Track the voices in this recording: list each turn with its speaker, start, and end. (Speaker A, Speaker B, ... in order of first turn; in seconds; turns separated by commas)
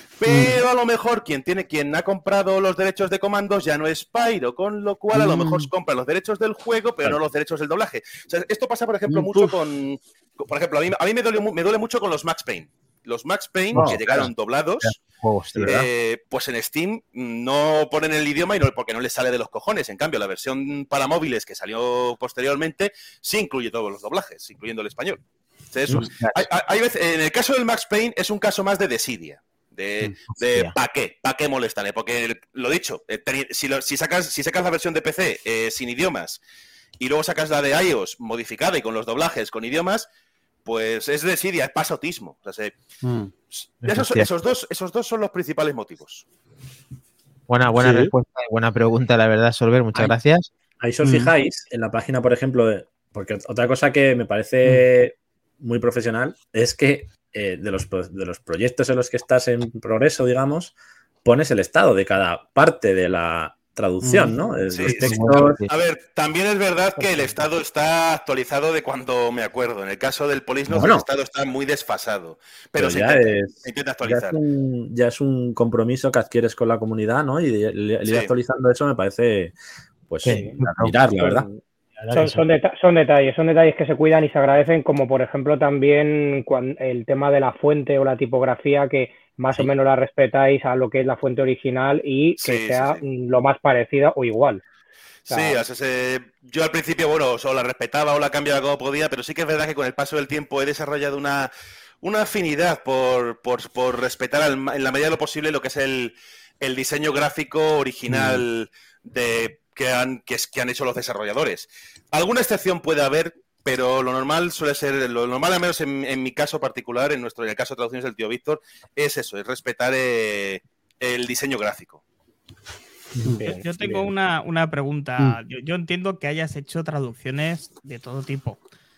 Speaker A: 0.2-14.9, Speaker B: 0.2-0.6, Speaker B: 5.1-5.7, Speaker B: 9.1-9.5, Speaker C: 13.7-14.0, Speaker C: 14.8-15.8, Speaker A: 15.6-25.2, Speaker A: 25.7-36.4, Speaker C: 25.9-26.4, Speaker C: 30.3-30.7, Speaker A: 37.0-40.1, Speaker A: 40.6-42.7, Speaker B: 43.0-43.3, Speaker A: 43.5-46.2, Speaker C: 43.8-44.3, Speaker C: 47.5-50.5, Speaker B: 47.8-48.1, Speaker D: 50.8-65.6, Speaker B: 51.0-51.3, Speaker B: 64.0-64.3, Speaker A: 64.7-74.4, Speaker C: 64.9-65.7, Speaker D: 70.7-71.0, Speaker D: 72.8-79.5, Speaker A: 78.0-78.3, Speaker D: 80.1-81.5, Speaker C: 80.2-80.9, Speaker E: 80.3-80.5, Speaker E: 81.2-81.5, Speaker C: 82.0-82.4, Speaker E: 82.1-94.6, Speaker A: 92.4-93.0, Speaker A: 95.3-101.5, Speaker E: 95.3-95.6, Speaker A: 102.0-122.0, Speaker F: 123.4-128.6